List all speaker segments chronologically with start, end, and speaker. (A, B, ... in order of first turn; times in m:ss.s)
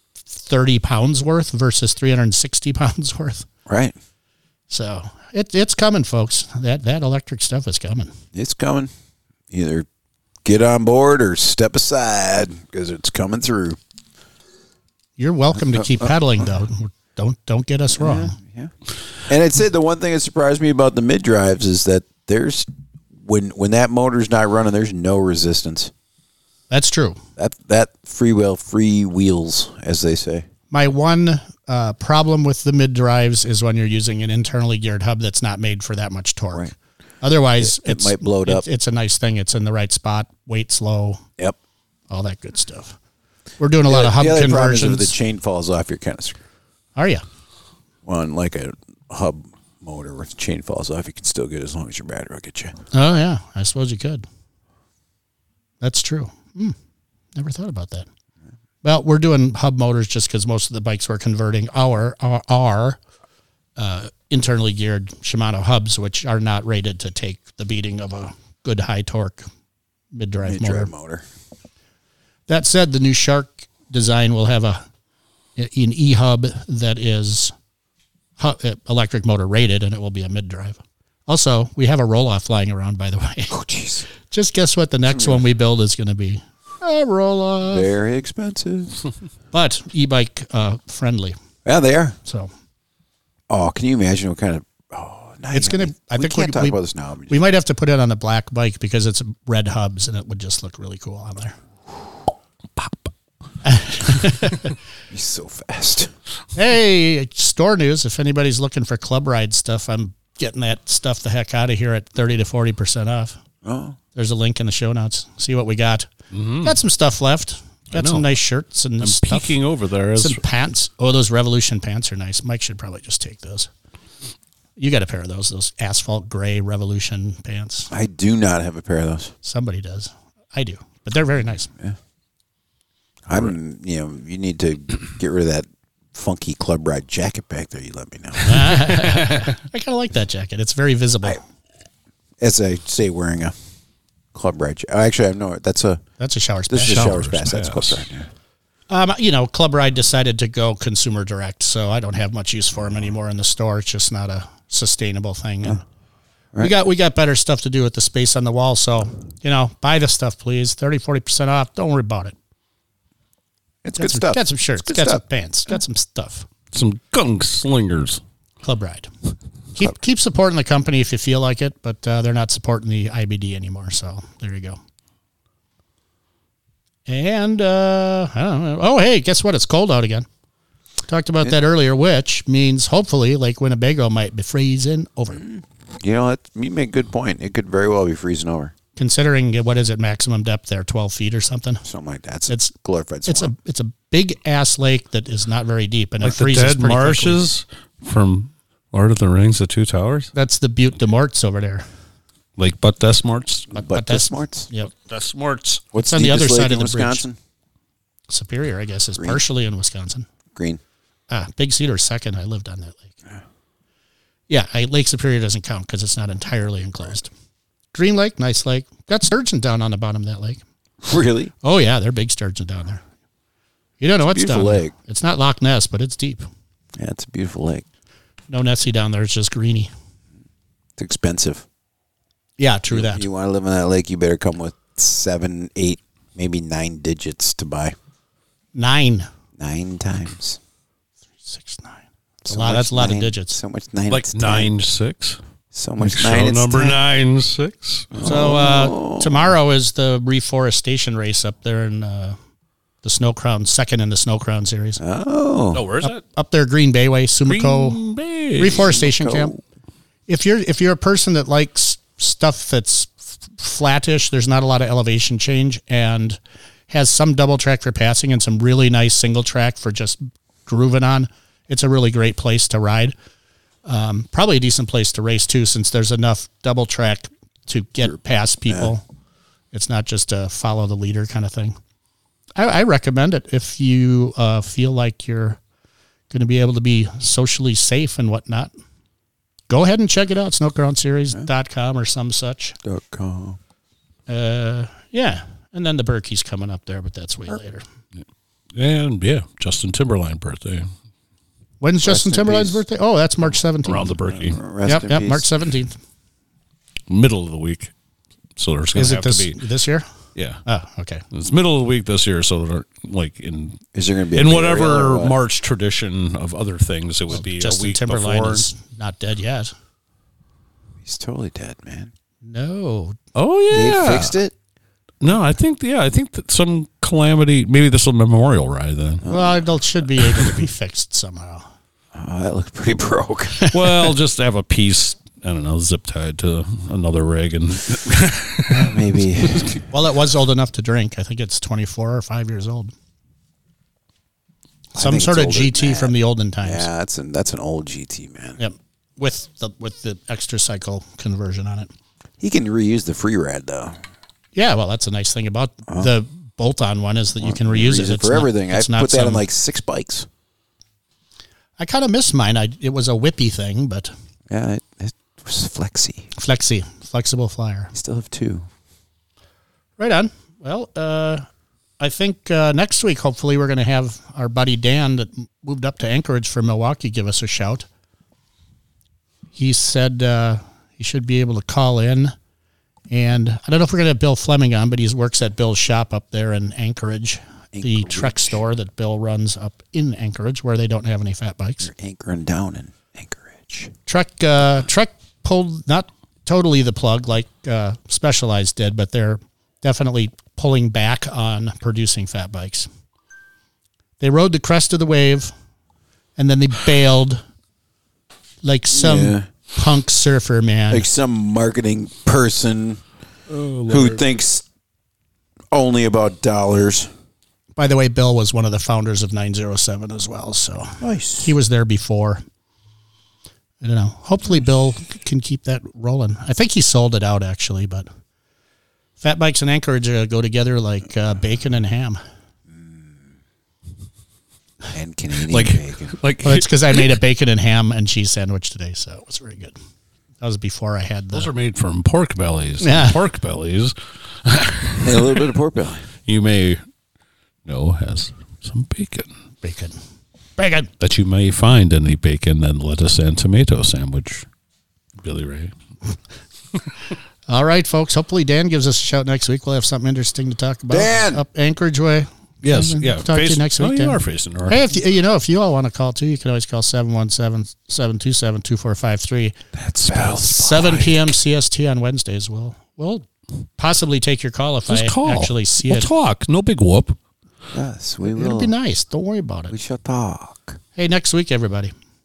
0:00.3-0:03.5 A
0:03.7-0:03.9 B
0:04.7-0:08.1 A
0:08.3-0:08.9 B
0:09.5-0:09.9 B
0:10.4-0:13.8 B
0:15.2-0:18.3 A
0:15.6-0:16.1 B
0:17.9-0:18.7 B
0:19.2-0:25.9 B
0:26.7-0:27.2 A
0:27.4-0:30.5 B
0:30.7-0:41.2 A
0:37.6-0:38.6 B
0:42.1-0:43.0 A
0:43.6-0:45.1 A
0:43.9-0:46.4 B
0:47.0-0:47.2 A
0:48.0-0:52.8 B
0:52.9-0:54.2 A
0:55.8-0:56.7 A
0:57.3-0:58.1 A
0:58.8-1:03.0 A
1:03.8-1:09.5 A
1:10.1-1:10.9 A
1:10.4-1:11.2 B
1:12.5-1:14.8 A
1:15.6-1:17.5 A
1:18.4-1:23.6 A
1:23.5-1:24.1 B
1:24.2-1:27.9 A
1:25.1-1:25.4 B
1:27.7-1:29.0 B
1:29.5-1:31.4 A
1:31.6-1:32.2 B
1:32.2-1:32.5 A
1:33.5-1:37.4 B
1:35.5-1:36.8 A
1:37.3-1:41.6 A
1:43.6-1:44.7 A
1:45.1-1:46.1 B
1:46.5-1:53.4 A
1:53.6-1:54.0 B
1:54.1-1:56.1 A
1:56.3-1:56.8 C
1:56.6-1:59.6 A
1:57.9-1:58.3 C
1:59.0-2:00.4 C
2:00.2-2:03.7 A
2:04.8-2:07.9 A
2:07.9-2:09.3 B
2:09.4-2:11.7 A
2:13.3-2:19.2 B
2:18.4-2:21.4 A
2:22.4-2:23.5 B
2:24.3-2:26.0 B
2:26.2-2:27.2 A
2:26.7-2:28.3 B
2:26.9-2:28.0 C
2:28.9-2:35.8 A
2:36.6-2:42.3 A
2:43.8-2:45.2 B
2:44.0-2:46.5 A
2:46.7-2:48.2 C
2:48.6-2:49.1 A
2:49.7-2:54.8 A
2:57.1-3:00.3 A
3:01.1-3:05.4 A
3:05.4-3:08.7 B
3:09.0-3:11.8 A
3:11.8-3:13.5 B
3:12.5-3:12.7 A
3:13.2-3:17.4 A
3:16.2-3:20.3 C
3:20.3-3:21.8 A
3:22.6-3:23.7 C
3:23.7-3:24.9 A
3:23.7-3:24.7 B
3:25.1-3:25.8 C
3:25.9-3:27.4 B
3:26.0-3:27.2 A
3:28.3-3:30.3 A
3:30.5-3:30.8 B
3:31.3-3:33.2 A
3:34.5-3:37.3 A
3:37.9-3:40.6 A
3:41.0-3:41.5 B
3:41.6-3:43.0 A
3:44.0-3:46.4 A
3:44.2-3:44.9 B
3:47.0-3:47.8 B
3:48.5-3:49.9 A
3:51.0-3:51.6 B
3:52.6-3:53.3 A
3:52.9-3:58.0 B
3:58.7-3:59.3 A
3:59.6-4:00.6 B
4:01.4-4:03.6 A
4:02.4-4:04.7 B
4:04.1-4:05.4 C
4:05.7-4:07.0 B
4:06.0-4:08.2 C
4:08.1-4:09.5 B
4:08.2-4:12.4 A
4:13.0-4:15.0 A
4:15.0-4:15.8 B
4:15.7-4:16.2 C
4:16.0-4:18.0 A
4:17.5-4:18.8 C
4:18.6-4:19.5 A
4:18.6-4:19.6 B
4:20.3-4:26.4 A
4:26.9-4:33.1 A
4:33.8-4:39.0 A
4:39.7-4:41.8 A
4:42.6-4:45.6 A
4:46.3-4:48.7 A
4:49.7-4:52.8 A
4:52.8-4:53.6 B
4:54.3-4:57.8 A
4:58.7-5:00.9 C
5:01.8-5:04.2 A
5:02.0-5:02.8 B
5:03.8-5:04.6 C
5:04.3-5:05.4 B
5:04.8-5:06.0 A
5:07.1-5:07.9 C
5:08.6-5:09.6 C
5:08.9-5:10.1 A
5:10.4-5:10.6 C
5:10.6-5:11.2 A
5:11.3-5:18.7 C
5:13.9-5:15.4 B
5:17.3-5:19.7 A
5:21.0-5:22.1 B
5:22.4-5:23.2 A
5:23.4-5:24.3 C
5:23.7-5:24.5 B
5:25.2-5:29.3 C
5:29.2-5:29.6 B
5:29.3-5:31.7 A
5:32.1-5:33.7 B
5:33.7-5:39.8 C
5:38.7-5:39.8 B
5:39.9-5:42.9 A
5:44.9-5:46.9 A
5:44.9-5:48.6 B
5:48.6-5:51.9 A
5:52.4-5:54.0 B
5:54.5-5:59.4 A
5:57.4-6:00.3 B
6:01.8-6:04.1 A
6:04.5-6:06.3 B
6:06.3-6:07.9 A
6:07.9-6:08.7 B
6:10.0-6:11.4 A
6:12.0-6:17.8 A
6:19.5-6:22.3 A
6:23.1-6:31.9 A
6:27.7-6:28.6 B
6:31.8-6:33.9 B
6:34.0-6:42.9 A
6:44.2-6:45.5 A
6:46.4-6:47.4 A
6:48.6-6:51.0 A
6:48.9-6:49.5 B
6:50.9-6:53.0 B
6:53.5-6:54.2 C
6:53.9-6:54.6 B
6:55.7-6:57.1 B
6:57.8-7:02.4 A
7:01.0-7:01.5 B
7:03.8-7:08.1 A
7:09.2-7:12.2 A
7:14.9-7:16.1 B
7:15.4-7:17.2 C
7:16.4-7:19.7 A
7:20.4-7:21.5 A
7:21.3-7:25.5 C
7:22.8-7:23.2 A
7:25.0-7:26.1 B
7:26.2-7:26.8 C
7:27.6-7:29.3 C
7:29.6-7:30.0 A
7:30.6-7:30.9 A
7:31.0-7:34.4 C
7:35.2-7:35.7 C
7:37.5-7:49.5 A
7:40.9-7:41.4 B
7:42.6-7:44.8 C
7:49.7-7:51.3 B
7:50.1-7:56.1 A
7:54.9-7:57.2 C
7:57.7-7:58.7 B
7:58.2-7:59.7 A
7:59.7-8:00.8 B
8:01.0-8:01.9 A